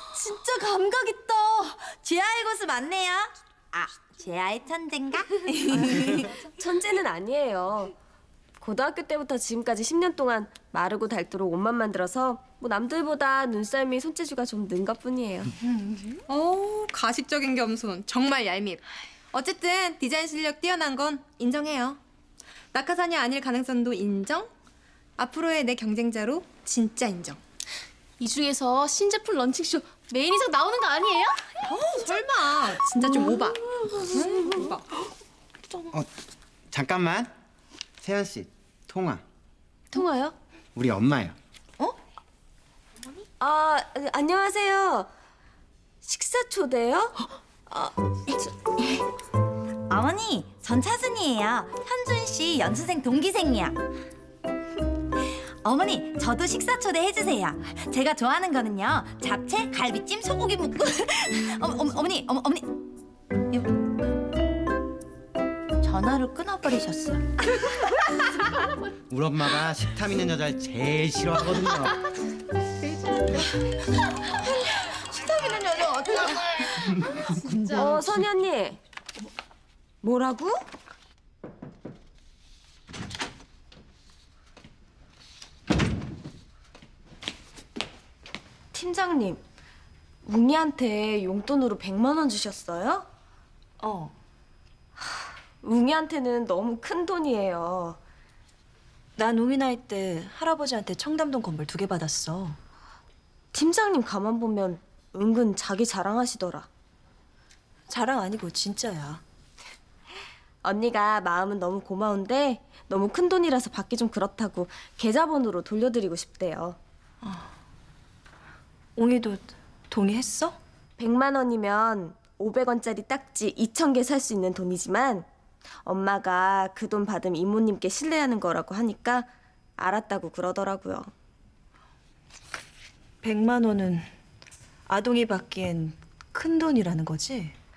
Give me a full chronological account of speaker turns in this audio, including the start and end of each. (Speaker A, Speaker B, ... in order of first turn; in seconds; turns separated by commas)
Speaker A: 0.1-6.0, Speaker B: 6.0-7.9, Speaker B: 8.6-15.5, Speaker C: 16.3-22.0, Speaker C: 22.7-24.5, Speaker C: 25.2-27.4, Speaker D: 28.2-31.7, Speaker C: 31.7-34.9, Speaker E: 36.7-37.3, Speaker E: 38.0-39.2, Speaker B: 39.9-40.3, Speaker E: 40.7-41.4, Speaker B: 43.4-45.1, Speaker B: 46.0-47.2, Speaker B: 47.7-48.7, Speaker A: 49.9-53.8, Speaker A: 55.2-62.7, Speaker A: 65.8-67.3, Speaker E: 69.1-72.0, Speaker A: 75.1-76.2, Speaker D: 77.3-77.8, Speaker B: 77.7-78.8, Speaker B: 80.0-80.6, Speaker B: 88.7-89.4, Speaker B: 90.2-93.1, Speaker F: 93.8-94.1, Speaker B: 95.6-98.0, Speaker F: 99.2-102.6, Speaker B: 103.5-106.7, Speaker F: 107.9-109.2, Speaker B: 110.6-116.8, Speaker F: 119.0-120.6, Speaker B: 121.0-125.3, Speaker B: 125.8-131.1, Speaker F: 133.2-134.1, Speaker F: 134.9-137.5